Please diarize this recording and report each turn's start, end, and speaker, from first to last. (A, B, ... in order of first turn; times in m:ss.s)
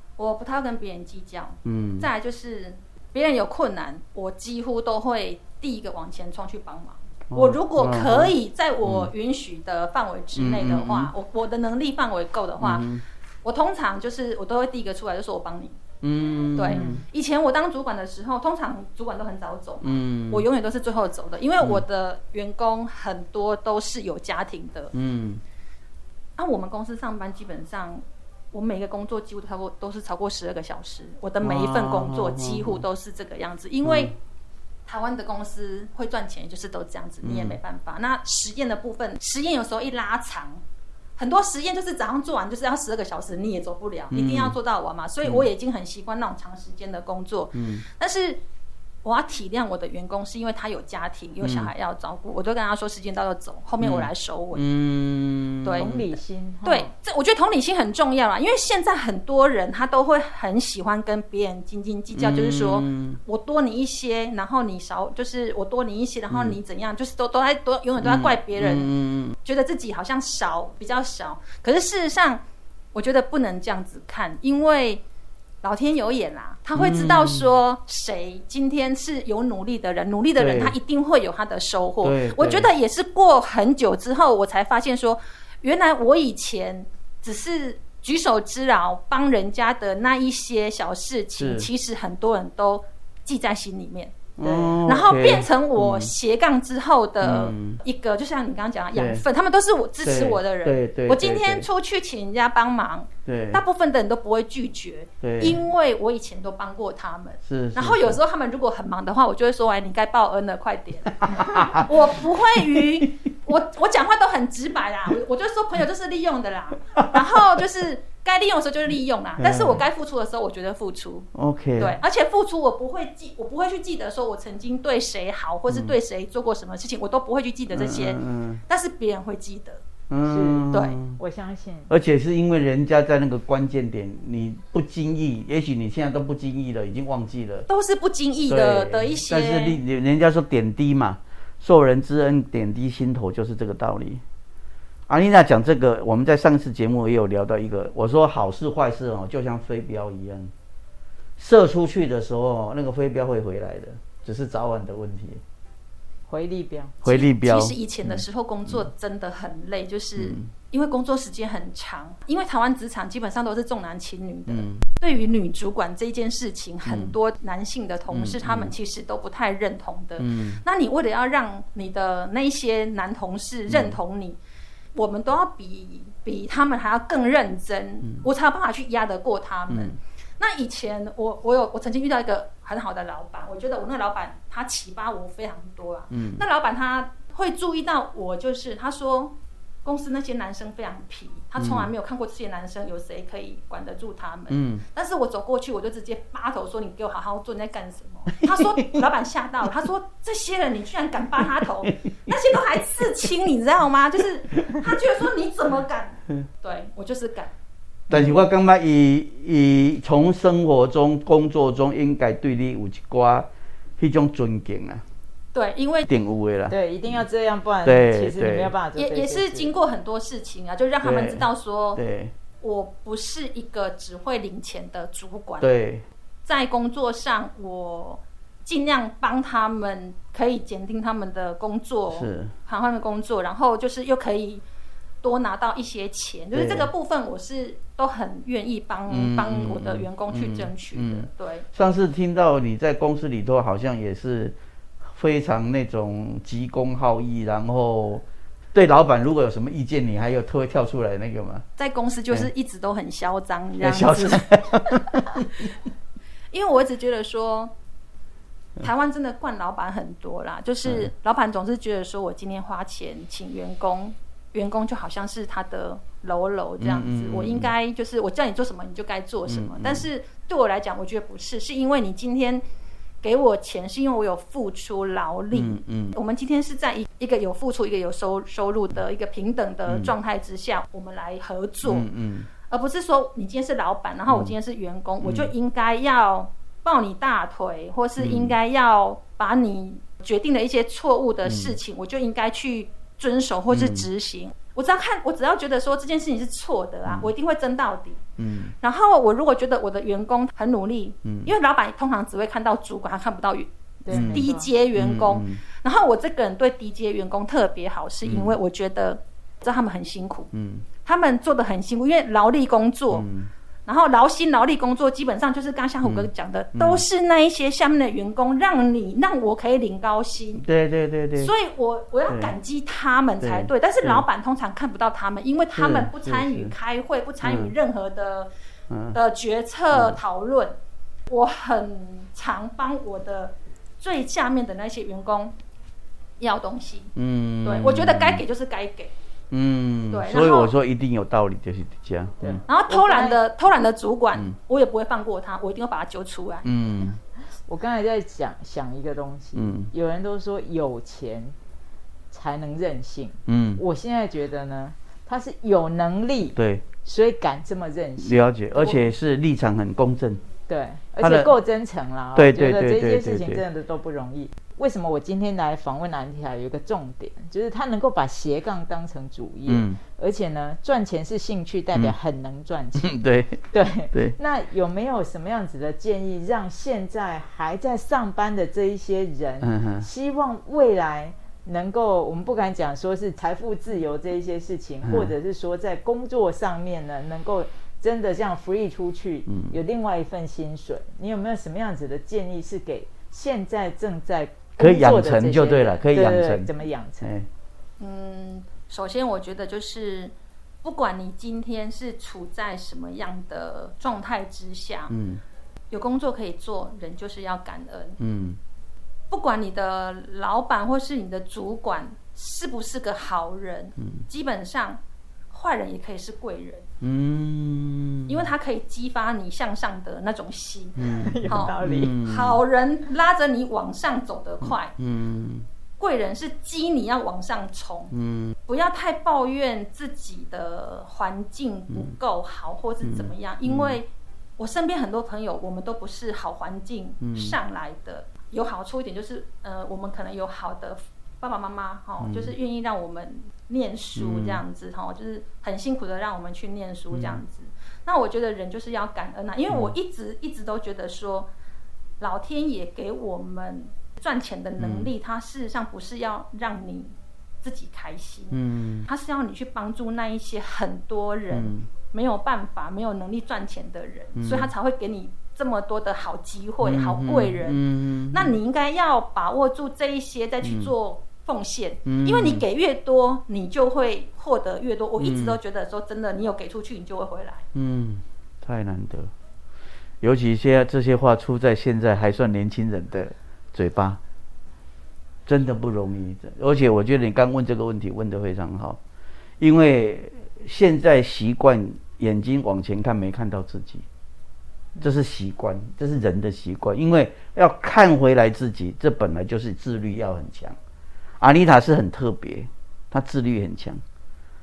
0:00.2-0:12.9 A
0:01.6-0:02.1 B
0:07.3-0:09.1 B
0:10.3-0:11.1 B
0:12.6-0:13.0 B
0:13.4-0:15.8 A
0:16.0-0:17.0 B
0:16.6-0:24.9 A
0:16.7-0:17.0 C
0:19.8-0:20.5 B
0:24.9-0:25.4 B
0:26.4-0:34.1 A
0:31.4-0:32.8 B
0:33.8-0:34.1 B
0:34.8-0:40.6 A
0:37.2-0:37.6 B
0:41.2-0:48.4 A
0:44.1-0:44.6 B
0:47.5-0:47.8 B
0:49.0-0:54.6 A
0:51.4-0:51.7 B
0:53.8-0:55.9 B
0:55.6-0:56.0 A
0:55.8-0:56.9 C
0:56.6-1:08.9 A
1:02.1-1:03.2 B
1:06.3-1:06.6 B
1:08.0-1:09.4 B
1:09.4-1:12.4 A
1:12.9-1:15.0 A
1:15.6-1:34.1 A
1:16.7-1:17.5 B
1:20.4-1:20.8 B
1:22.0-1:22.7 B
1:31.4-1:31.7 B
1:34.4-1:36.1 B
1:34.4-1:34.8 C
1:34.8-2:09.8 A
1:37.2-1:37.8 B
1:38.9-1:39.2 B
1:40.0-1:41.7 B
1:43.2-1:43.6 B
1:45.2-1:45.6 B
1:47.4-1:48.2 B
1:51.2-1:51.9 B
1:52.6-1:53.1 B
1:59.4-1:59.8 B
2:01.3-2:02.0 B
2:05.7-2:06.0 B
2:07.7-2:08.6 B
2:10.1-2:11.2 B
2:10.2-2:11.9 C
2:10.7-2:11.0 A
2:11.9-2:17.7 B
2:17.7-2:19.8 A
2:18.5-2:24.2 B
2:25.1-2:30.5 B
2:31.4-2:35.4 B
2:36.3-2:37.0 C
2:37.0-2:38.9 B
2:37.0-2:54.4 A
2:40.2-2:40.5 B
2:44.5-2:44.8 B
2:46.8-2:47.1 B
2:48.1-2:48.7 B
2:50.2-2:50.6 B
2:53.7-2:54.0 B
2:54.9-3:27.5 A
2:58.0-2:58.3 B
2:59.7-2:59.9 B
3:06.1-3:06.4 B
3:11.6-3:11.9 B
3:14.5-3:14.8 B
3:18.4-3:19.0 B
3:21.8-3:22.3 B
3:24.6-3:24.9 B
3:28.1-3:33.5 B
3:34.0-3:35.0 B
3:35.5-3:36.1 A
3:36.0-3:37.2 B
3:36.7-3:39.7 C
3:37.8-3:38.7 B
3:39.0-3:42.0 A
3:41.0-3:42.3 B
3:42.6-3:45.7 A
3:45.6-3:46.0 B
3:46.4-3:54.6 A
3:52.1-3:52.5 B
3:55.2-4:01.7 A
3:56.5-3:56.9 B
3:59.1-4:04.6 B
4:05.1-4:11.6 B
4:11.8-4:14.4 A
4:13.8-4:15.7 B
4:16.5-4:17.7 A
4:18.8-4:32.6 A
4:20.8-4:21.1 B
4:26.8-4:27.7 B
4:29.5-4:30.1 B
4:33.2-4:42.1 A
4:35.5-4:36.2 B
4:39.9-4:40.1 B
4:41.8-4:42.5 B
4:42.7-4:58.2 A
4:44.3-4:44.6 B
4:45.2-4:45.5 B
4:48.2-4:48.6 B
4:51.4-4:51.8 B
4:53.7-4:54.1 B
4:58.4-4:58.7 B
4:58.8-5:10.5 A
5:01.2-5:01.5 B
5:04.0-5:04.7 C
5:04.1-5:05.6 B
5:08.2-5:08.6 B
5:10.5-5:10.8 B
5:11.0-5:13.2 A
5:13.1-5:13.5 B
5:13.8-5:20.6 A
5:16.0-5:17.0 B
5:20.6-5:21.5 B
5:21.4-5:28.5 A
5:22.3-5:22.5 B
5:23.4-5:24.2 B
5:25.7-5:26.7 B
5:27.4-5:27.7 B
5:28.9-5:29.2 B
5:29.1-5:30.8 A
5:29.9-5:30.2 B
5:31.3-5:35.5 A
5:36.4-5:39.1 A
5:37.2-5:38.4 B
5:39.5-5:42.6 B
5:40.1-5:40.7 A
5:42.4-5:43.4 C
5:42.7-5:46.7 A
5:46.6-5:47.2 B
5:47.7-5:51.5 C
5:49.5-5:49.9 B
5:52.3-5:58.4 C
5:53.5-5:53.8 B
5:56.6-5:56.8 B
5:58.2-6:00.4 B
6:00.7-6:13.2 C
6:01.2-6:01.5 B
6:02.3-6:03.6 B
6:09.6-6:10.0 B
6:13.0-6:14.4 B
6:13.7-6:37.3 C
6:19.6-6:20.0 B
6:25.0-6:25.3 B
6:29.5-6:29.7 B
6:34.8-6:37.5 B
6:38.0-6:45.1 A
6:45.1-6:45.4 B
6:45.9-6:48.2 A
6:48.2-6:48.6 B
6:49.3-6:56.9 A
6:57.0-6:58.4 B
6:58.3-7:04.9 A
7:01.0-7:02.6 B
7:01.1-7:02.2 C
7:04.6-7:05.6 B
7:06.0-7:08.1 A
7:08.1-7:08.6 B
7:08.7-7:31.5 A
7:13.0-7:14.0 B
7:17.2-7:17.6 B
7:22.2-7:22.6 B
7:24.2-7:24.6 B
7:27.1-7:27.4 B
7:29.7-7:29.9 B
7:32.2-7:57.6 A
7:34.8-7:35.1 B
7:38.5-7:39.1 B
7:41.5-7:41.8 B
7:44.4-7:44.7 B
7:46.8-7:48.6 B
7:50.6-7:50.9 B
7:52.0-7:52.6 B
7:55.2-7:55.6 B
7:57.7-7:59.3 B
8:00.2-8:04.2 B
8:05.5-8:09.0 B
8:09.6-8:14.0 B
8:15.0-8:20.8 B
8:21.4-8:24.0 B